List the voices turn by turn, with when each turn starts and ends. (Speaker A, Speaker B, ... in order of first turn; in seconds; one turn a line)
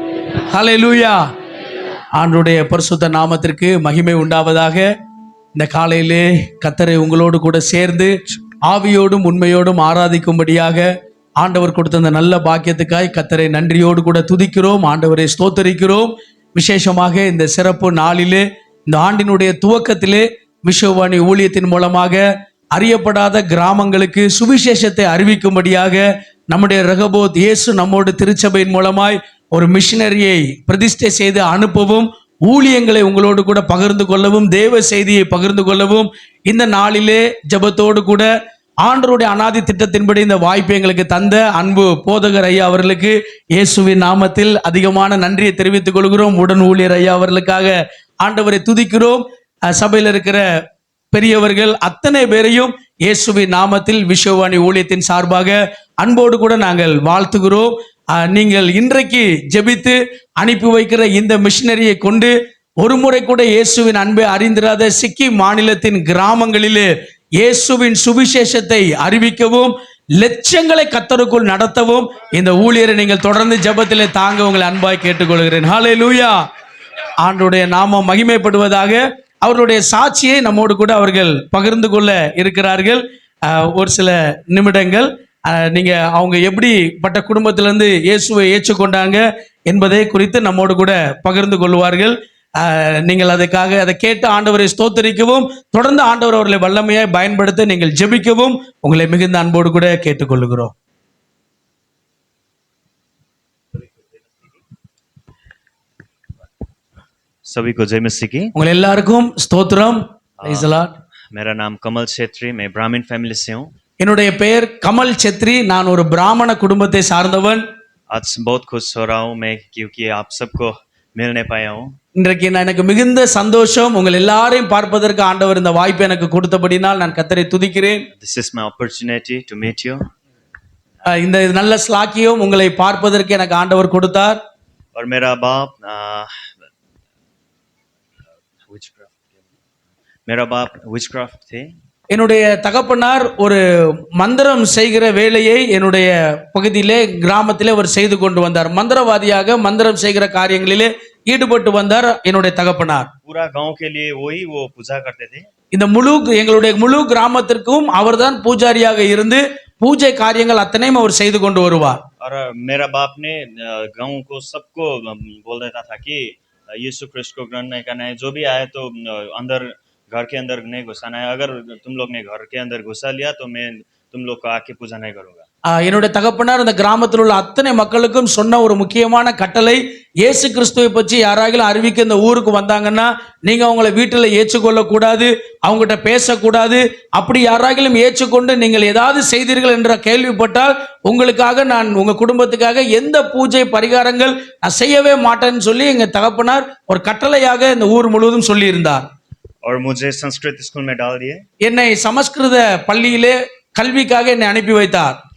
Speaker A: 0.5-1.3
Speaker A: 2.2-4.9
Speaker A: 5.5-10.9
Speaker A: 11.4-22.2
Speaker A: 22.8-38.3
Speaker A: 38.8-50.5
Speaker A: 51.1-76.4
Speaker A: 77.2-100.7
Speaker B: 107.5-108.5
Speaker A: 108.5-110.9
Speaker B: 110.4-110.7
Speaker B: 111.3-113.7
Speaker A: 114.0-117.6
Speaker B: 118.1-121.9
Speaker A: 122.2-128.1
Speaker B: 128.2-130.1
Speaker A: 131.1-134.4
Speaker B: 134.9-136.5
Speaker B: 138.6-139.4
Speaker B: 140.3-141.7
Speaker A: 142.1-143.6
Speaker A: 144.2-153.1
Speaker B: 153.2-155.5
Speaker A: 155.7-162.0
Speaker B: 162.2-175.4
Speaker A: 175.7-199.0
Speaker B: 199.6-201.4
Speaker A: 201.6-205.2